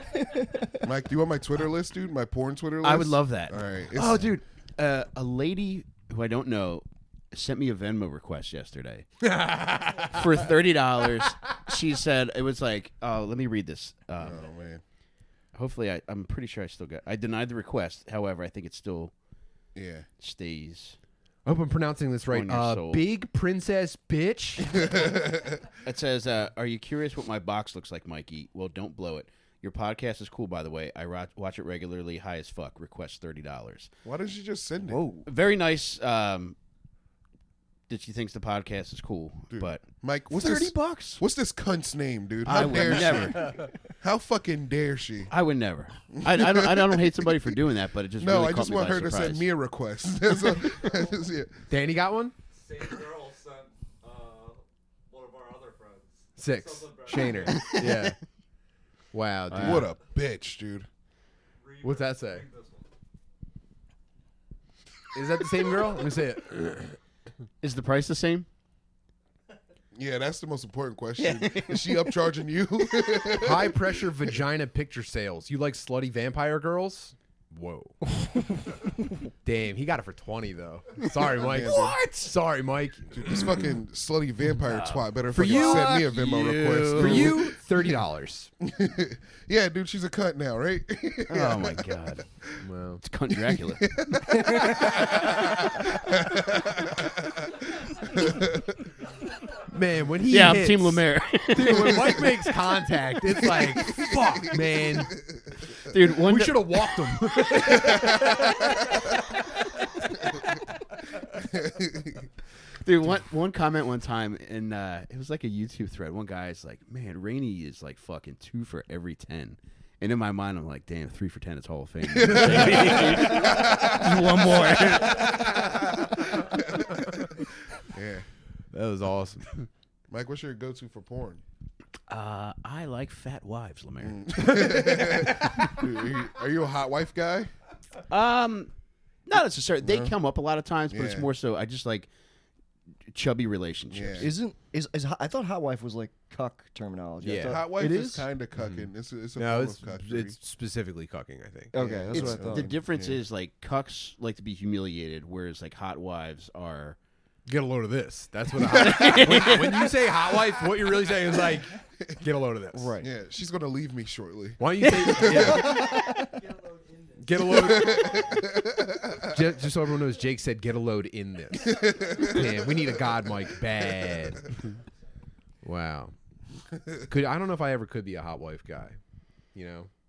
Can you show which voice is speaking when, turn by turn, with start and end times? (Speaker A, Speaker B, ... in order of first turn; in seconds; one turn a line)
Speaker A: 0.2-0.8
Speaker B: 0.7-4.4
Speaker C: 2.8-9.1
Speaker D: 9.2-10.4
Speaker C: 10.1-14.4
Speaker B: 14.2-14.8
Speaker C: 15.5-19.1
Speaker B: 19.8-20.1
Speaker C: 20.2-21.0
Speaker D: 21.4-25.0
Speaker C: 22.3-23.1
Speaker B: 24.8-25.6
Speaker C: 25.8-33.9
Speaker B: 34.0-35.0
Speaker A: 34.9-35.3
Speaker C: 35.2-36.5
Speaker C: 37.9-41.2
Speaker B: 39.5-45.3
Speaker C: 42.4-43.7
Speaker C: 45.3-49.5
Speaker B: 46.1-47.5
Speaker B: 48.2-51.6
Speaker D: 51.7-52.3
Speaker E: 53.0-56.1
Speaker D: 56.4-58.2
Speaker C: 57.5-58.1
Speaker D: 59.1-59.9
Speaker C: 59.5-59.9
Speaker B: 59.5-60.9
Speaker D: 61.8-62.5
Speaker E: 62.5-62.8
Speaker D: 65.1-67.0
Speaker C: 67.6-68.5
Speaker B: 69.9-73.9
Speaker C: 71.2-72.2
Speaker C: 73.0-73.3
Speaker D: 73.4-78.1
Speaker D: 79.4-83.6
Speaker C: 81.0-82.3
Speaker B: 81.4-82.0
Speaker B: 83.1-87.5
Speaker C: 84.6-87.4
Speaker D: 85.3-86.1
Speaker D: 86.9-88.5
Speaker B: 88.6-92.7
Speaker C: 91.3-92.2
Speaker D: 92.6-93.0
Speaker C: 93.0-94.0
Speaker B: 93.4-98.8
Speaker A: 94.4-94.9
Speaker D: 99.7-105.2
Speaker C: 100.3-103.6
Speaker B: 103.7-105.9
Speaker C: 105.8-106.9
Speaker D: 106.1-109.0
Speaker B: 107.7-109.1
Speaker B: 111.3-112.3
Speaker C: 112.8-125.4
Speaker B: 122.1-128.2
Speaker D: 122.3-123.5
Speaker A: 124.0-125.0
Speaker D: 125.0-125.9
Speaker D: 128.7-129.6
Speaker B: 130.1-131.4
Speaker C: 132.1-134.7
Speaker B: 134.0-137.5
Speaker D: 134.6-135.1
Speaker C: 138.1-138.7
Speaker C: 139.3-142.1
Speaker B: 139.8-140.1
Speaker B: 140.9-141.3
Speaker C: 143.1-144.3
Speaker B: 143.9-144.3
Speaker A: 144.2-148.3
Speaker D: 147.2-147.6
Speaker B: 147.4-150.3
Speaker D: 148.6-151.8
Speaker A: 151.7-152.7
Speaker B: 151.8-153.2
Speaker C: 152.1-157.0
Speaker D: 157.5-162.9
Speaker C: 158.6-159.9
Speaker A: 162.7-163.1
Speaker B: 163.0-166.0
Speaker D: 164.6-166.0
Speaker C: 164.8-165.2
Speaker A: 165.8-166.3
Speaker D: 167.2-168.2
Speaker B: 167.4-169.4
Speaker D: 169.2-174.6
Speaker B: 171.6-172.8
Speaker D: 175.6-176.1
Speaker B: 176.7-177.1
Speaker D: 177.1-179.0
Speaker D: 179.5-179.9